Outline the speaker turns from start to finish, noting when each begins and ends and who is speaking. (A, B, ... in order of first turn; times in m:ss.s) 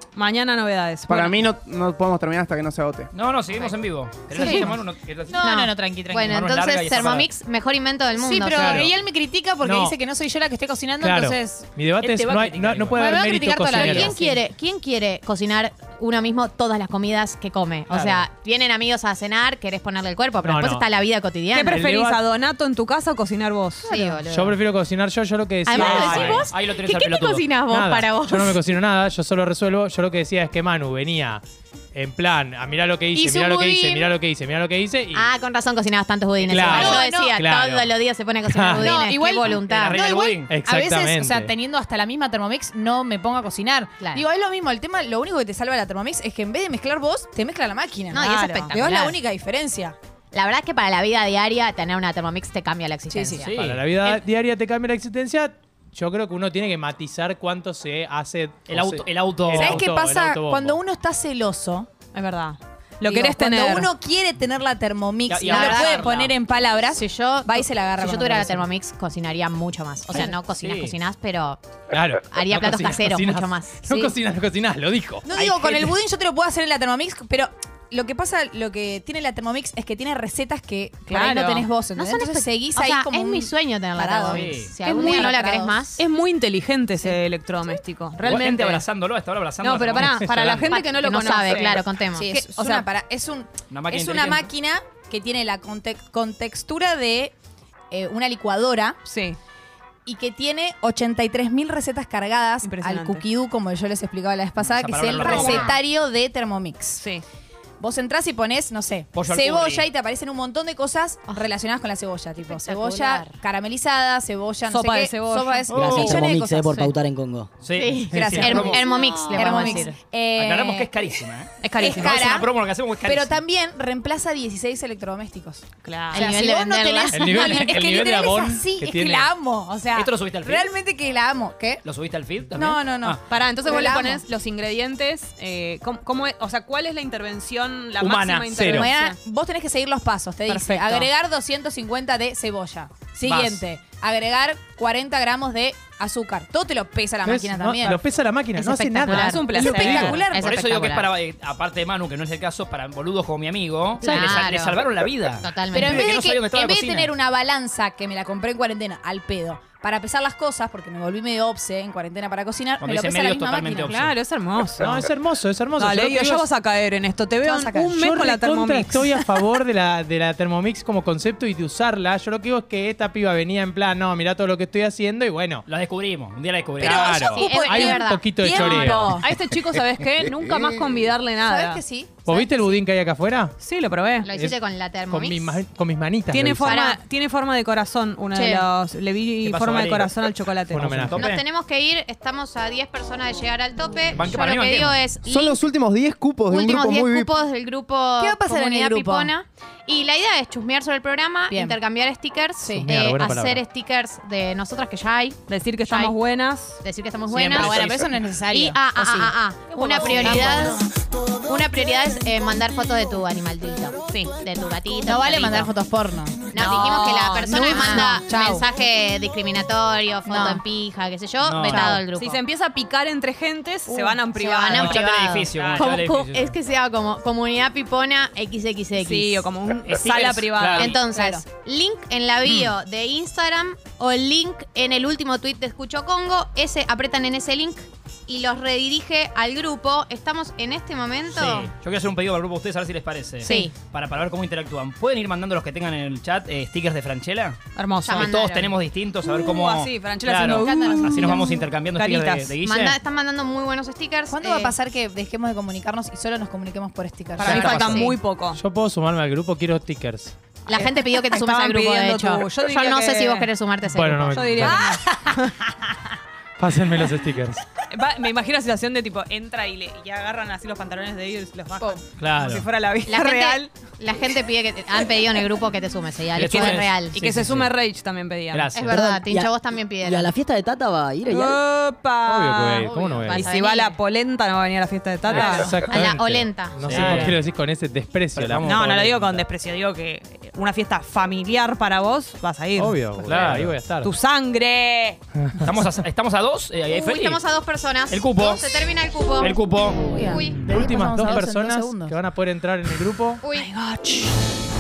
0:00.2-0:01.4 A
0:01.1-0:03.1 B
0:03.1-0:07.3 C
0:04.4-0:04.8 D
0:04.4-0:04.7 E
0:05.3-0:06.3 E
0:05.3-0:08.9 D
0:08.2-0:11.7 E
0:08.5-0:08.9 F
0:09.6-0:10.0 F
0:11.0-0:14.2 F
0:12.0-0:13.2 C
0:13.0-0:14.4 E
0:13.7-0:21.8 D
0:17.9-0:18.3 C
0:20.4-0:20.9 F
0:21.5-0:24.2 A
0:21.7-0:22.2 F
0:23.9-0:24.6 D
0:24.3-0:26.5 F
0:25.7-0:28.6 D
0:25.7-0:27.6 C
0:27.6-0:31.4 F
0:31.9-0:35.3 F
0:33.2-0:34.0 A
0:35.1-0:40.0 D
0:36.5-0:37.9 F
0:36.7-0:37.4 E
0:38.5-0:38.9 F
0:38.8-0:39.5 A
0:38.9-0:50.0 E
0:39.5-0:40.6 C
0:40.5-0:41.5 F
0:44.0-0:44.2 D
0:48.1-0:49.2 D
0:48.3-0:48.7 A
0:50.3-0:53.5 D
0:53.1-0:53.5 E
0:53.4-0:53.9 C
0:53.5-1:00.8 F
0:58.7-0:59.9 C
0:59.5-1:01.9 E
1:02.1-1:03.9 A
1:03.0-1:08.6 E
1:05.3-1:06.4 C
1:05.4-1:06.1 D
1:07.0-1:11.6 D
1:10.1-1:11.0 C
1:11.9-1:15.3 F
1:12.3-1:14.1 D
1:15.3-1:25.8 E
1:15.3-1:16.0 C
1:21.1-1:21.7 A
1:22.0-1:26.0 D
1:24.3-1:24.8 C
1:24.8-1:28.8 A
1:28.2-1:30.8 C
1:29.6-1:32.9 A
1:30.7-1:32.3 D
1:31.4-1:31.6 C
1:32.1-1:37.3 E
1:33.7-1:34.5 C
1:37.9-1:39.0 E
1:39.1-1:39.4 A
1:40.1-1:47.0 E
1:42.6-1:43.3 A
1:44.6-1:45.8 C
1:45.2-1:45.7 A
1:45.2-1:45.7 D
1:47.0-1:47.2 A
1:47.8-1:57.0 E
1:49.1-1:49.9 C
1:52.4-1:53.4 D
1:54.7-1:55.7 A
1:55.7-1:57.5 G
1:55.7-1:56.2 C
1:57.6-1:59.2 C
1:57.7-2:00.0 D
1:58.1-2:00.9 E
1:58.2-1:58.4 F
1:58.7-1:59.8 A
2:00.4-2:03.4 C
2:01.6-2:02.4 A
2:01.8-2:02.5 E
2:03.1-2:11.8 E
2:05.8-2:06.4 A
2:06.1-2:08.1 D
2:07.1-2:09.3 F
2:09.9-2:10.7 C
2:11.8-2:13.2 C
2:12.5-2:14.2 E
2:13.3-2:19.2 A
2:18.0-2:18.9 C
2:18.5-2:18.9 F
2:18.8-2:28.0 E
2:20.5-2:21.1 A
2:23.2-2:23.6 C
2:27.3-2:30.2 F
2:28.6-2:31.1 D
2:29.0-2:30.4 A
2:29.6-2:30.5 E
2:29.6-2:37.1 C
2:34.0-2:36.1 D
2:35.7-2:44.0 E
2:42.8-2:44.1 C
2:43.7-2:45.0 A
2:44.8-2:46.5 F
2:45.8-2:49.3 A
2:47.4-2:48.0 E
2:47.9-2:55.6 F
2:55.7-2:57.3 C
2:56.8-2:59.0 D
2:56.8-2:57.7 A
2:56.8-2:59.2 E
2:56.8-2:59.2 F
2:58.5-3:01.8 A
3:00.2-3:01.0 B
3:01.4-3:02.2 E
3:02.2-3:03.5 F
3:02.3-3:02.7 D
3:03.6-3:04.3 A
3:04.2-3:05.6 D
3:04.3-3:04.6 F
3:05.1-3:06.8 F
3:06.3-3:11.0 A
3:06.6-3:07.0 D
3:08.4-3:08.6 D
3:09.4-3:11.4 C
3:10.7-3:11.3 F
3:11.2-3:15.6 D
3:14.2-3:15.0 C
3:15.2-3:17.3 B
3:16.5-3:26.2 D
3:18.2-3:19.3 E
3:21.5-3:21.8 E
3:22.7-3:23.6 F
3:25.5-3:26.8 A
3:26.8-3:30.8 D
3:27.3-3:28.1 C
3:27.5-3:29.3 E
3:29.7-3:30.8 A
3:30.0-3:30.8 E
3:31.5-3:35.7 D
3:35.0-3:36.7 E
3:36.5-3:42.4 D
3:36.6-3:38.2 A
3:37.4-3:38.6 E
3:40.3-3:40.6 E
3:41.4-3:42.0 C
3:41.7-3:45.9 A
3:43.9-3:49.4 D
3:44.6-3:46.5 C
3:49.0-3:51.0 A
3:49.9-3:51.0 C
3:50.8-4:01.7 D
3:51.1-3:51.4 E
3:52.5-3:52.7 A
4:01.3-4:13.0 C
4:03.4-4:03.7 D
4:03.4-4:03.7 A
4:07.8-4:08.4 A
4:08.0-4:08.8 D
4:09.2-4:12.5 A
4:10.6-4:11.6 E
4:12.6-4:14.8 D
4:14.3-4:17.9 E
4:17.4-4:18.6 A
4:17.4-4:18.2 D
4:17.4-4:20.4 F
4:20.7-4:25.0 D
4:21.2-4:23.5 A
4:23.8-4:24.9 F
4:24.3-4:25.6 A
4:26.6-4:27.6 F
4:27.9-4:33.7 A
4:32.2-4:32.6 C
4:33.1-4:37.2 D
4:36.3-4:37.7 C
4:36.5-4:38.7 A
4:38.5-4:39.0 C
4:38.7-4:40.3 D
4:38.9-4:41.6 G
4:41.3-4:45.8 A
4:42.2-4:43.5 F
4:43.3-4:44.0 D
4:45.3-4:48.7 F
4:45.3-4:47.1 D
4:46.8-4:47.4 C
4:46.9-4:47.4 A
4:48.4-4:49.4 C
4:48.6-4:53.1 A
4:52.8-4:54.1 F
4:53.2-4:53.8 C
4:54.0-4:55.2 A
4:55.4-4:55.8 F
4:55.6-4:57.4 C
4:56.9-4:59.6 D
4:58.1-4:58.8 C
4:59.4-5:00.2 C
5:00.0-5:02.2 E
5:00.6-5:03.4 F
5:03.4-5:03.7 D
5:03.5-5:04.4 A